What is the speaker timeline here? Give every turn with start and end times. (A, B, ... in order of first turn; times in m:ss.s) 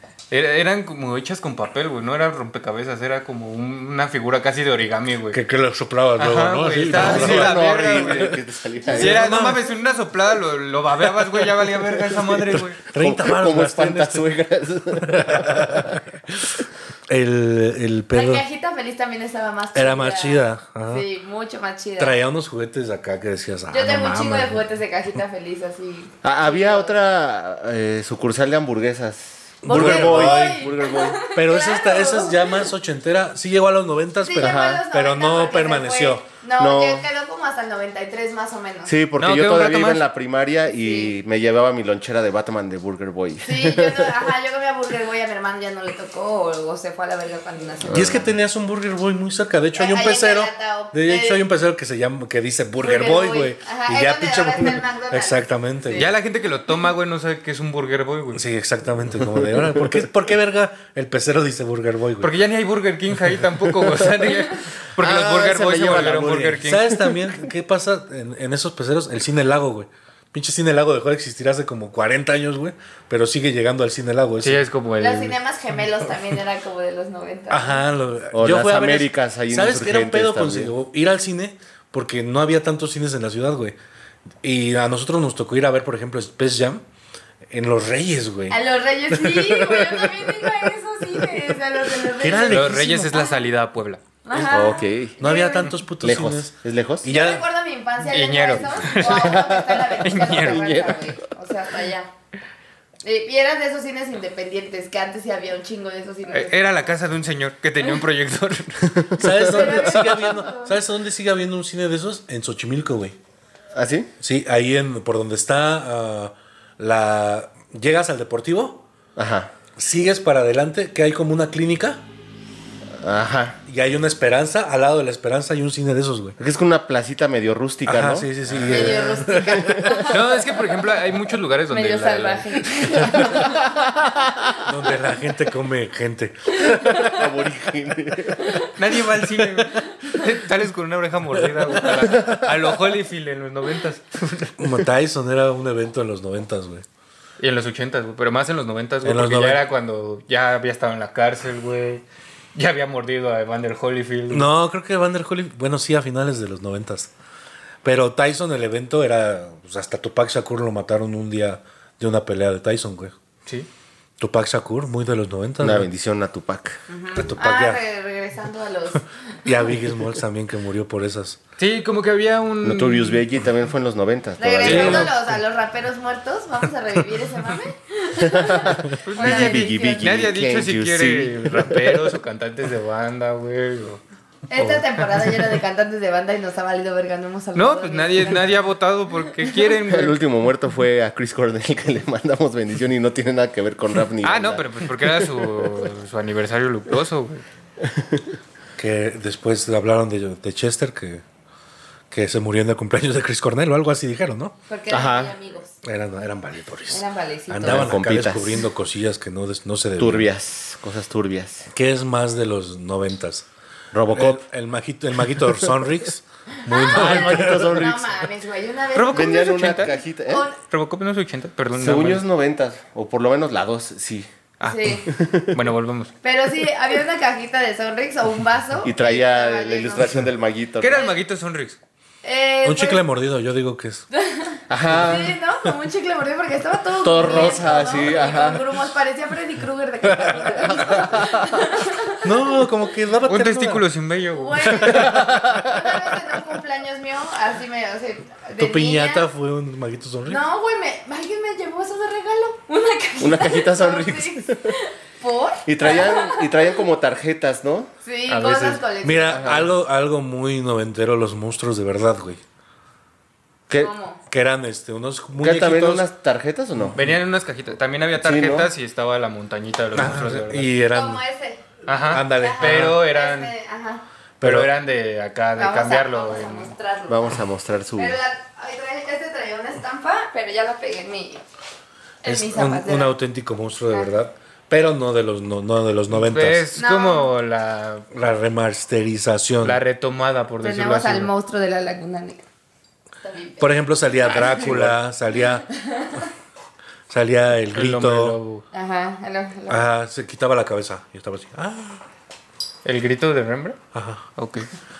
0:00.3-0:05.4 A
0:05.3-0:08.4 B
0:06.2-0:08.3 A
0:06.9-0:09.4 C
0:08.9-0:09.6 B
0:08.9-0:12.8 A
0:12.5-0:14.4 B
0:13.0-0:16.0 C
0:14.9-0:18.4 B
0:18.1-0:22.2 D
0:19.7-0:21.0 B
0:22.0-0:24.6 B
0:23.7-0:26.9 D
0:26.2-0:31.2 C
0:29.6-0:30.7 B
0:29.6-0:32.7 D
0:31.3-0:36.2 B
0:34.2-0:38.9 D
0:34.4-0:34.8 C
0:36.6-0:37.0 C
0:38.9-0:44.2 C
0:39.2-0:40.0 A
0:40.7-0:41.1 D
0:43.4-0:48.3 D
0:47.8-0:48.3 C
0:47.9-0:56.1 B
0:49.7-0:51.4 D
0:52.8-0:56.1 D
0:55.9-0:58.4 A
0:58.3-1:02.4 B
1:02.2-1:06.9 A
1:05.0-1:07.1 C
1:06.6-1:14.6 B
1:14.4-1:15.4 A
1:15.0-1:17.8 D
1:17.5-1:23.8 B
1:18.3-1:20.7 C
1:24.4-1:26.8 B
1:27.5-1:30.6 B
1:28.5-1:32.8 D
1:32.0-1:33.2 B
1:32.5-1:34.0 A
1:34.2-1:35.7 D
1:34.3-1:35.2 C
1:35.2-1:37.4 B
1:36.0-1:37.1 C
1:37.0-1:42.1 D
1:38.1-1:40.7 A
1:39.0-1:41.2 C
1:43.0-1:46.9 D
1:46.3-1:48.8 A
1:49.0-1:49.9 C
1:49.2-1:53.2 B
1:49.4-1:50.7 D
1:53.7-1:54.1 C
1:54.2-1:58.8 B
1:59.2-1:59.5 C
1:59.8-2:02.0 B
2:03.0-2:03.6 C
2:03.7-2:06.4 B
2:06.4-2:09.8 C
2:07.8-2:10.1 B
2:08.6-2:10.2 D
2:10.1-2:12.7 A
2:11.7-2:13.7 D
2:14.6-2:17.3 B
2:16.7-2:17.0 D
2:17.0-2:18.6 C
2:18.4-2:18.7 D
2:18.8-2:24.7 A
2:24.6-2:26.8 B
2:27.4-2:32.0 A
2:29.0-2:29.6 B
2:32.5-2:34.5 A
2:34.3-2:37.1 B
2:37.8-2:43.1 B
2:44.2-2:45.9 B
2:45.6-2:46.8 C
2:46.9-2:49.0 D
2:47.2-2:47.8 B
2:49.4-2:51.4 B
2:51.6-2:53.2 A
2:52.6-2:55.2 C
2:54.4-3:00.2 D
2:54.6-2:55.1 B
2:54.6-2:55.0 A
2:58.2-3:02.0 C
2:59.0-3:04.0 A
3:04.5-3:08.5 D
3:04.5-3:05.4 A
3:07.5-3:10.2 A
3:09.8-3:15.7 C
3:14.2-3:17.4 A
3:17.8-3:18.2 C
3:18.8-3:21.2 B
3:22.1-3:24.6 B
3:24.7-3:25.7 D
3:24.9-3:25.3 C
3:25.8-3:30.3 B
3:26.9-3:27.9 D
3:27.6-3:28.6 C
3:30.0-3:31.7 C
3:31.7-3:33.4 B
3:33.9-3:34.4 C
3:34.1-3:37.9 B
3:36.6-3:40.6 D
3:36.9-3:38.1 C
3:38.9-3:39.9 A
3:39.1-3:40.4 C
3:40.7-3:42.2 A
3:41.8-3:44.3 C
3:44.6-3:46.1 A
3:44.6-3:45.1 D
3:45.1-3:45.5 C
3:46.2-3:50.2 D
3:48.8-3:51.1 C
3:50.8-3:51.8 A
3:52.2-3:53.0 D
3:52.6-3:54.0 B
3:54.1-4:02.3 D
3:54.7-3:55.4 C
3:57.0-3:58.7 C
4:01.1-4:01.5 C
4:02.2-4:03.8 B
4:03.2-4:05.0 A
4:04.3-4:09.2 D
4:04.7-4:05.6 B
4:08.6-4:10.4 B
4:10.3-4:16.8 D
4:13.2-4:14.7 C
4:15.6-4:17.9 C
4:18.0-4:19.6 D
4:18.3-4:18.8 A
4:19.0-4:22.4 B
4:19.3-4:19.7 C
4:23.8-4:24.2 D
4:24.3-4:26.1 B
4:25.4-4:27.0 C
4:26.9-4:30.7 A
4:28.2-4:28.7 C
4:29.9-4:31.2 B
4:30.8-4:31.6 D
4:31.8-4:33.5 A
4:32.1-4:33.0 B
4:32.2-4:34.0 D
4:34.4-4:34.7 B
4:34.4-4:36.7 A
4:35.6-4:37.4 D
4:37.1-4:38.2 C
4:38.0-4:41.4 D
4:42.2-4:43.1 D
4:42.2-4:46.7 B
4:46.1-4:48.1 A
4:46.7-4:47.3 D
4:48.1-4:49.8 B
4:49.6-4:51.3 A
4:50.6-4:52.4 D
4:53.2-4:53.7 D
4:53.6-4:55.7 B
4:54.2-4:54.6 D
4:54.5-4:54.9 C
4:55.7-4:56.3 D
4:57.1-4:58.4 B
4:57.7-4:58.6 A
4:58.7-4:59.8 D
4:59.7-5:02.0 B
5:02.8-5:03.8 A
5:03.9-5:04.2 B
5:04.4-5:04.7 A